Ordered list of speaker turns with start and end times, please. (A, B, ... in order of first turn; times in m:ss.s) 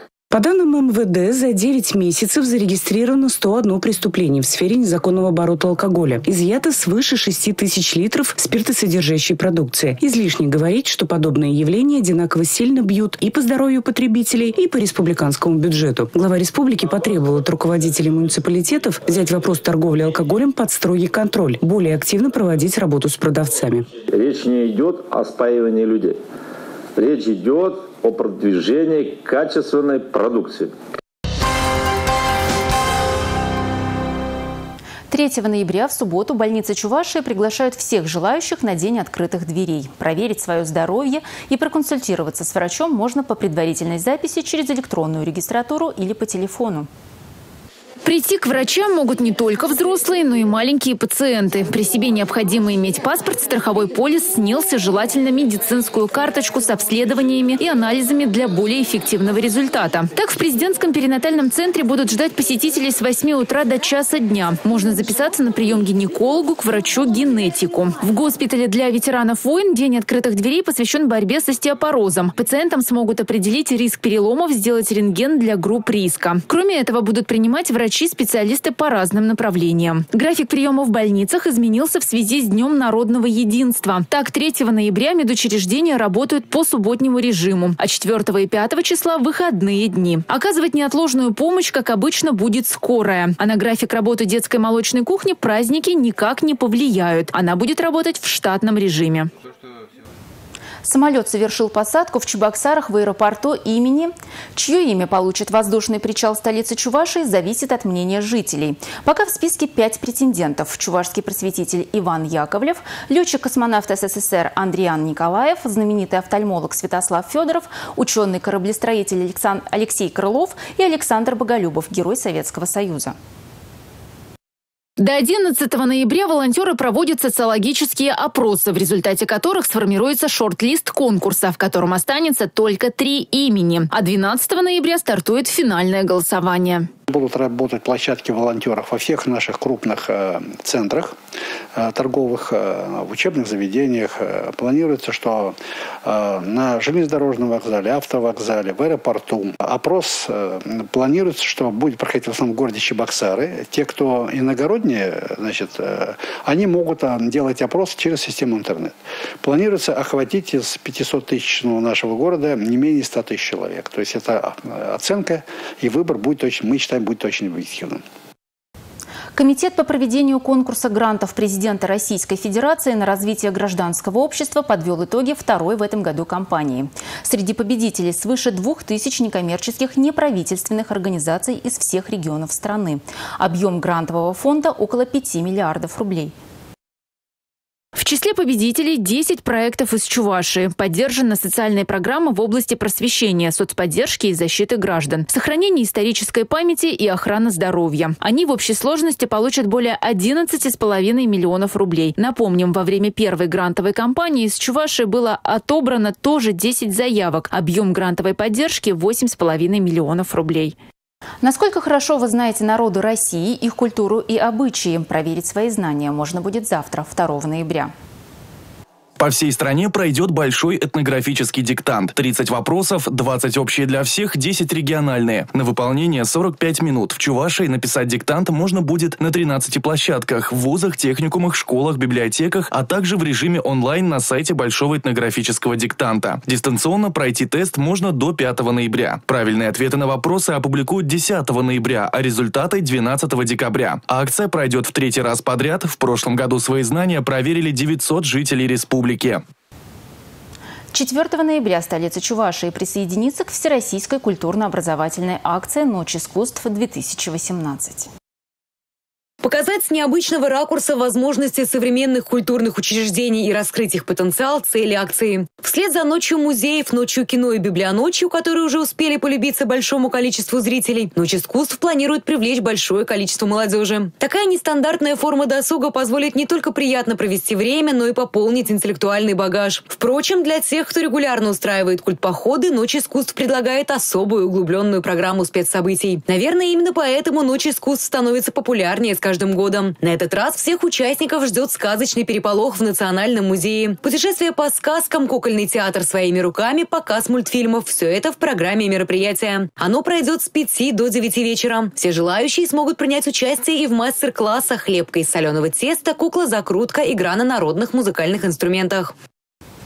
0:00.3-0:23.9 A
0:25.7-0:26.1 B
0:27.7-0:28.2 B
0:28.9-0:30.7 B
0:35.1-0:46.9 C
0:48.0-1:39.3 D
1:40.8-2:03.2 C
2:05.0-2:16.9 D
2:17.1-2:21.1 E
2:21.8-2:48.0 E
2:49.4-3:06.3 C
3:08.0-3:30.7 D
3:31.4-3:37.9 C
3:39.2-4:09.4 F
4:10.9-4:18.1 C
4:19.4-5:09.1 G